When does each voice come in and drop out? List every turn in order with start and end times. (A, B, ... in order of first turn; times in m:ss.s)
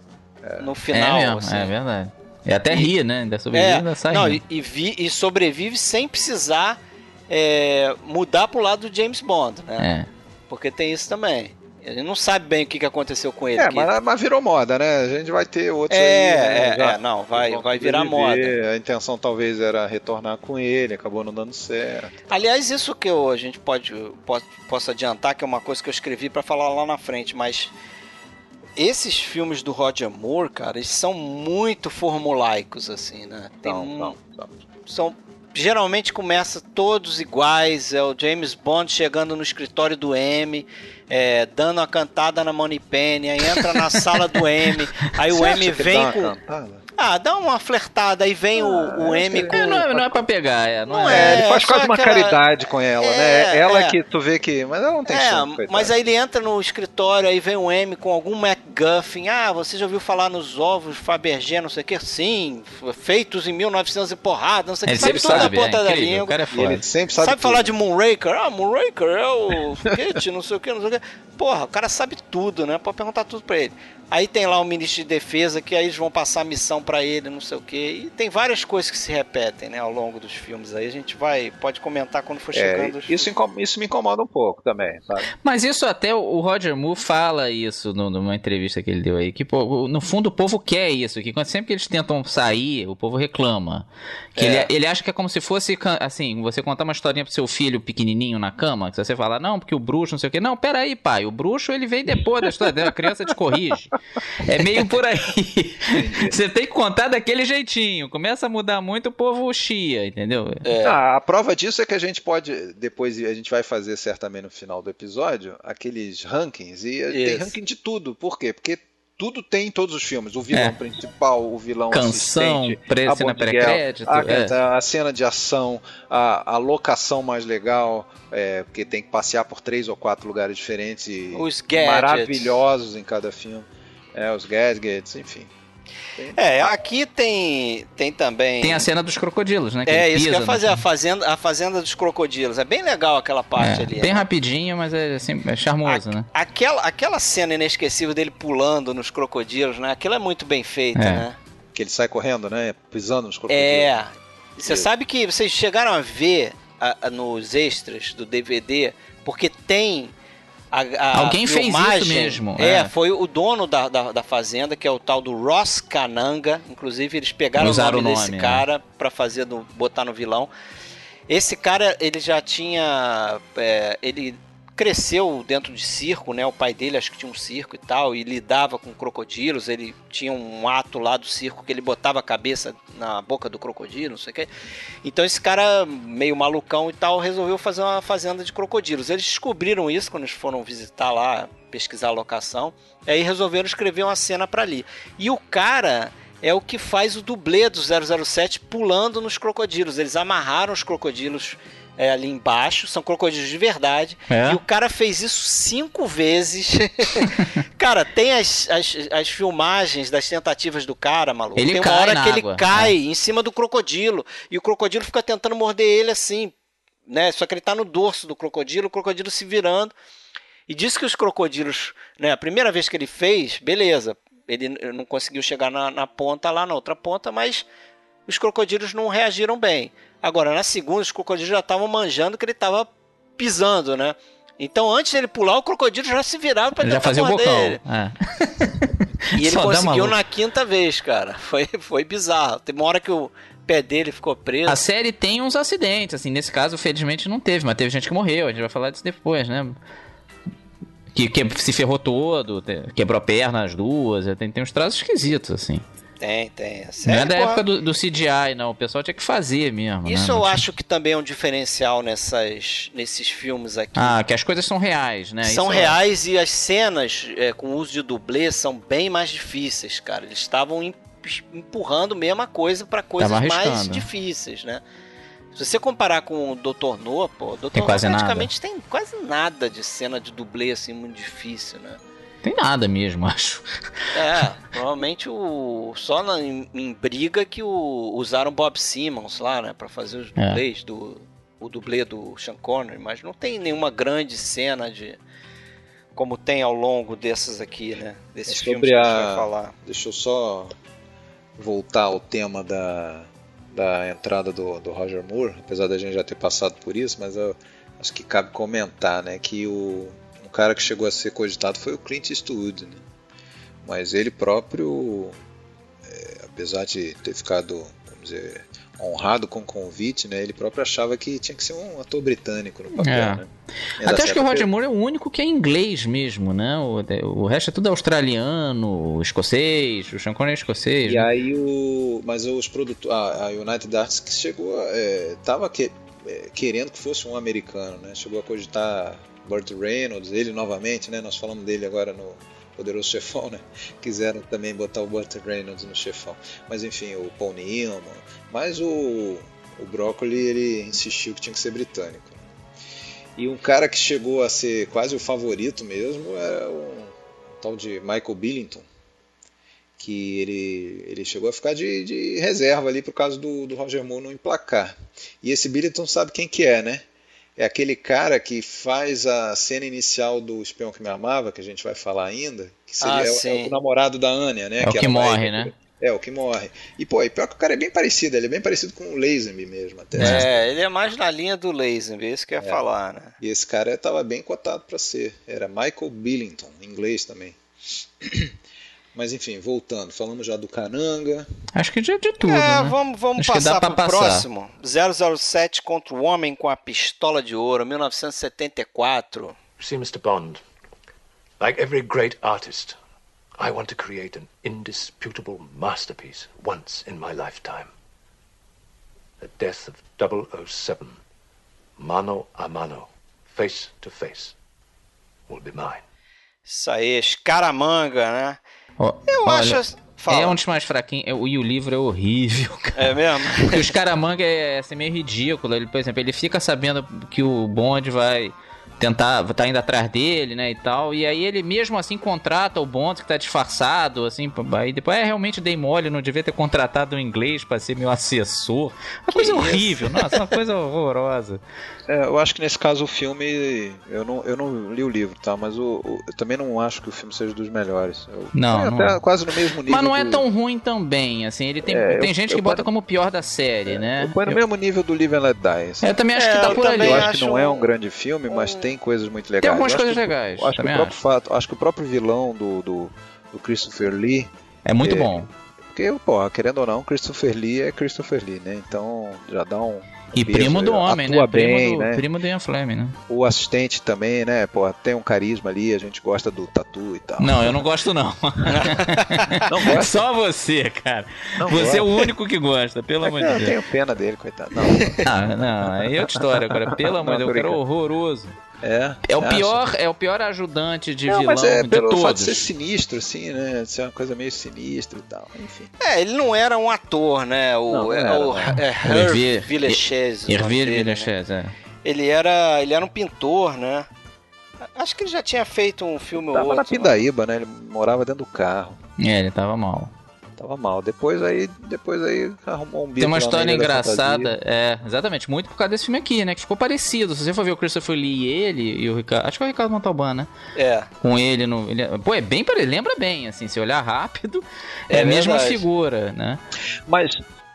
0:00.4-0:00.7 A
0:00.6-0:01.7 B
0:00.9-0:04.4 C
0:03.5-0:06.8 B
0:07.3-0:09.9 B
0:09.8-0:10.1 C
0:10.5-0:13.9 B
0:13.6-0:22.3 A
0:15.9-0:18.5 B
0:22.3-0:27.7 B
0:28.8-0:34.2 B
0:33.6-0:34.6 A
0:34.8-0:46.3 B
0:45.3-0:46.8 A
0:47.0-0:49.9 B
0:48.5-0:50.1 A
0:49.5-0:51.4 C
0:50.9-0:52.4 B
0:51.1-0:55.9 A
0:53.0-0:54.0 B
0:55.1-1:06.4 B
1:04.9-1:06.8 C
1:05.0-1:05.5 A
1:06.5-1:07.7 A
1:07.2-1:23.3 B
1:22.5-1:25.3 A
1:25.4-1:50.6 C
1:34.4-1:34.7 B
1:45.9-1:46.4 A
1:50.6-1:51.0 B
1:50.8-2:15.5 A
1:57.1-1:57.5 B
2:01.9-2:04.5 C
2:11.3-2:12.6 B
2:16.2-2:16.7 A
2:16.3-2:18.9 B
2:18.6-2:20.8 C
2:19.9-2:24.3 B
2:23.6-2:26.2 C
2:25.8-2:31.4 B
2:31.0-2:31.2 C
2:31.7-2:33.9 A
2:33.5-2:40.1 B
2:40.7-2:50.5 B
2:41.1-2:42.9 C
2:47.6-2:48.6 C
2:51.3-3:04.5 B
3:05.0-3:36.5 B
3:24.3-3:24.6 C
3:31.6-3:32.9 C
3:37.1-3:39.9 B
3:40.7-3:47.6 B
3:48.3-3:57.8 B
3:56.8-4:00.2 C
3:59.3-4:04.8 B
4:04.7-4:09.8 C
4:11.1-4:15.8 C
4:16.2-4:17.6 B
4:17.0-4:20.6 C
4:20.0-4:24.2 B
4:24.0-4:26.0 C
4:25.4-4:34.8 B
4:33.2-4:34.0 C
4:35.5-4:42.0 B
4:37.7-4:38.5 C
4:42.4-4:43.6 C
4:44.1-4:55.2 B
4:56.1-4:59.7 B
4:58.5-5:00.7 A
5:01.6-5:13.0 A
5:13.8-5:15.4 A
5:16.0-5:23.5 A
5:23.0-5:23.4 C
5:24.0-5:24.7 A
5:24.0-5:31.3 C
5:31.0-5:52.4 A
5:53.4-5:58.9 A
6:00.0-6:07.0 A
6:07.6-6:20.6 A
6:13.0-6:13.7 B
6:14.8-6:15.7 C
6:20.2-6:23.4 B
6:20.2-6:20.4 C
6:23.4-6:27.6 A
6:28.2-6:28.5 A
6:29.1-6:31.5 A
6:31.7-6:34.4 C
6:32.4-6:39.6 B
6:39.8-6:40.6 D
6:41.6-6:43.0 D
6:43.6-6:47.9 D
6:49.4-6:51.2 D
6:52.0-6:54.5 D
6:55.5-6:56.0 D
6:56.7-6:58.6 B
6:59.0-7:21.6 C
6:59.3-7:00.6 B
7:03.0-7:03.9 B
7:19.3-7:20.3 B
7:22.1-7:30.4 A
7:28.5-7:29.2 C
7:29.9-7:34.6 C
7:31.8-7:32.9 A
7:33.9-7:36.1 A
7:36.0-7:37.3 C
7:36.3-7:37.9 B
7:36.6-7:44.5 A
7:38.5-7:38.8 B
7:39.6-7:41.2 C
7:44.8-7:45.5 C
7:45.0-7:52.2 A
7:50.3-7:53.2 C
7:53.3-7:57.8 A
7:57.4-8:03.7 C
7:58.7-7:59.6 B
7:59.6-8:00.2 A
8:01.6-8:02.2 A
8:03.2-8:05.2 A
8:04.9-8:05.1 B
8:05.2-8:08.6 C
8:06.0-8:07.8 A
8:08.8-8:09.8 A
8:09.2-8:12.7 C
8:11.3-8:15.9 A
8:16.0-8:21.3 B
8:17.9-8:18.8 A
8:19.0-8:21.7 C
8:22.0-8:24.1 B
8:24.9-8:27.2 B
8:26.4-8:29.0 A
8:29.2-8:30.1 C
8:30.6-8:34.5 A
8:33.2-8:40.5 C
8:40.7-8:41.1 B
8:41.2-8:46.6 C
8:45.1-8:45.8 B
8:47.1-8:47.4 A